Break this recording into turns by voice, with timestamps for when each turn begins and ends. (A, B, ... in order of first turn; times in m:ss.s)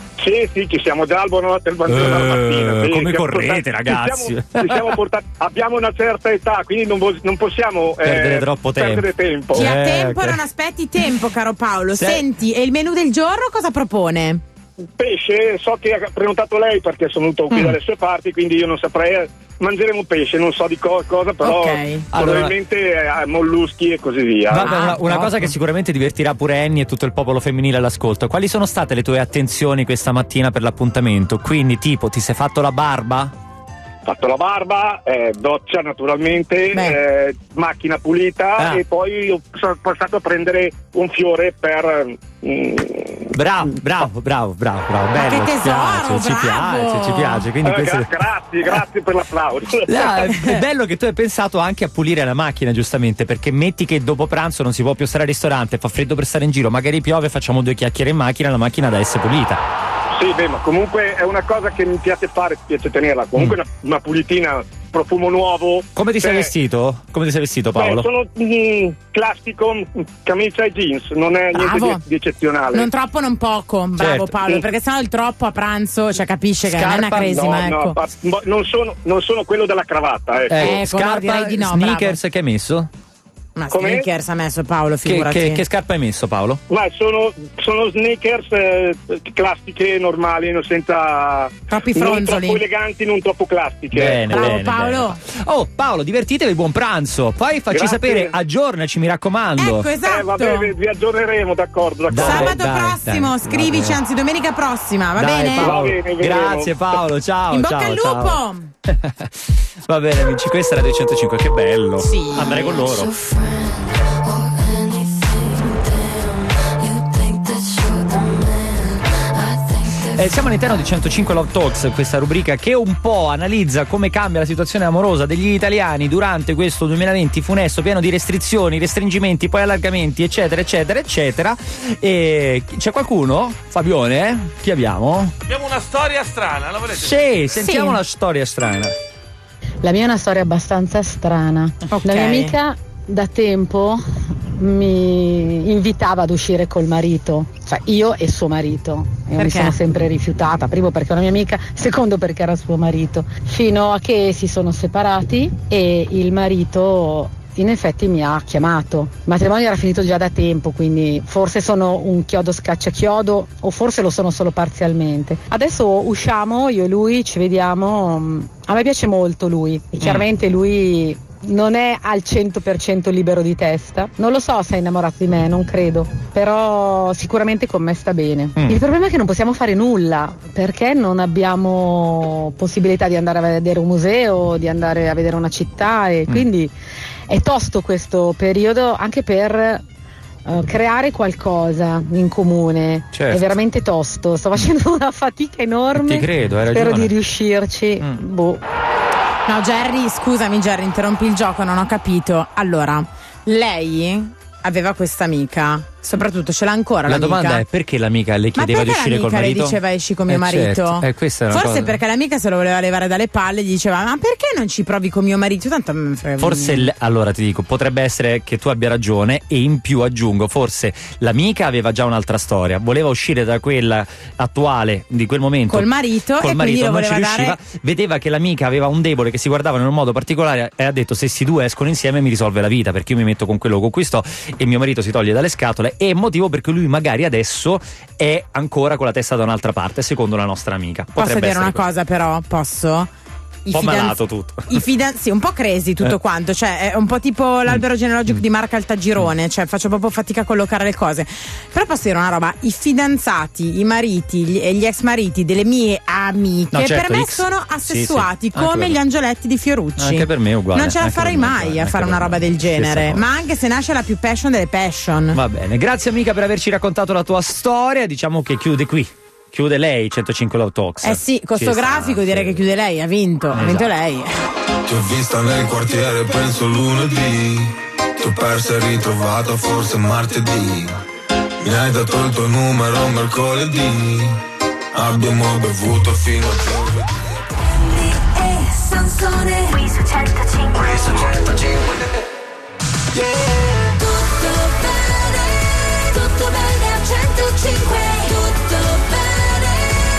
0:00.2-0:09.7 A
0:01.9-0:04.9 B
0:08.0-0:10.4 B
0:09.5-0:14.4 C
0:11.9-0:12.2 B
0:15.0-0:24.7 A
0:17.5-0:17.8 B
0:21.4-0:22.0 C
0:22.1-0:22.5 B
0:24.5-0:33.3 B
0:24.6-0:25.5 C
0:34.0-0:43.3 A
0:36.7-0:37.0 C
0:43.3-0:48.1 B
0:45.1-0:47.5 C
0:47.6-0:50.4 A
0:49.9-0:59.6 B
1:00.1-1:06.5 A
1:06.0-1:08.1 B
1:07.7-1:12.9 A
1:11.5-1:12.0 C
1:12.7-1:18.0 C
1:14.0-1:14.4 B
1:16.6-1:17.6 B
1:17.2-1:20.7 A
1:20.5-1:22.9 B
1:20.6-1:22.2 C
1:23.6-1:25.6 C
1:23.7-1:24.1 A
1:25.0-1:26.6 B
1:26.7-1:34.5 A
1:31.7-1:32.6 C
1:33.9-1:39.9 B
1:34.3-1:35.2 C
1:37.7-1:38.3 A
1:39.6-1:40.7 C
1:40.0-1:42.5 A
1:42.1-1:44.0 B
1:42.1-1:45.8 C
1:45.1-1:49.4 B
1:45.6-1:46.8 A
1:47.5-1:48.7 C
1:49.9-1:53.2 B
1:52.0-1:52.6 C
2:00.1-2:15.3 B
2:15.5-2:17.6 D
2:16.9-2:18.9 B
2:17.6-2:18.0 C
2:19.8-2:24.0 E
2:21.9-2:22.6 C
2:24.6-3:06.7 E
2:29.4-2:29.8 C
2:50.0-2:50.2 B
3:07.3-3:09.8 E
3:10.4-3:18.6 E
3:13.1-3:13.6 B
3:15.9-3:17.2 B
3:19.4-3:27.6 C
3:27.0-3:32.0 B
3:28.5-3:36.9 C
3:36.4-4:01.9 B
3:45.7-3:47.6 C
4:01.1-4:03.1 C
4:03.6-4:25.4 C
4:03.7-4:04.8 B
4:07.7-4:08.4 B
4:16.7-4:19.0 B
4:20.0-4:23.3 B
4:25.3-4:32.6 B
4:31.0-4:34.3 C
4:33.5-4:33.9 B
4:34.9-4:40.9 F
4:41.6-4:44.4 F
4:44.9-4:47.1 F
4:49.2-4:49.8 G
4:54.3-4:55.1 G
4:56.4-4:59.7 G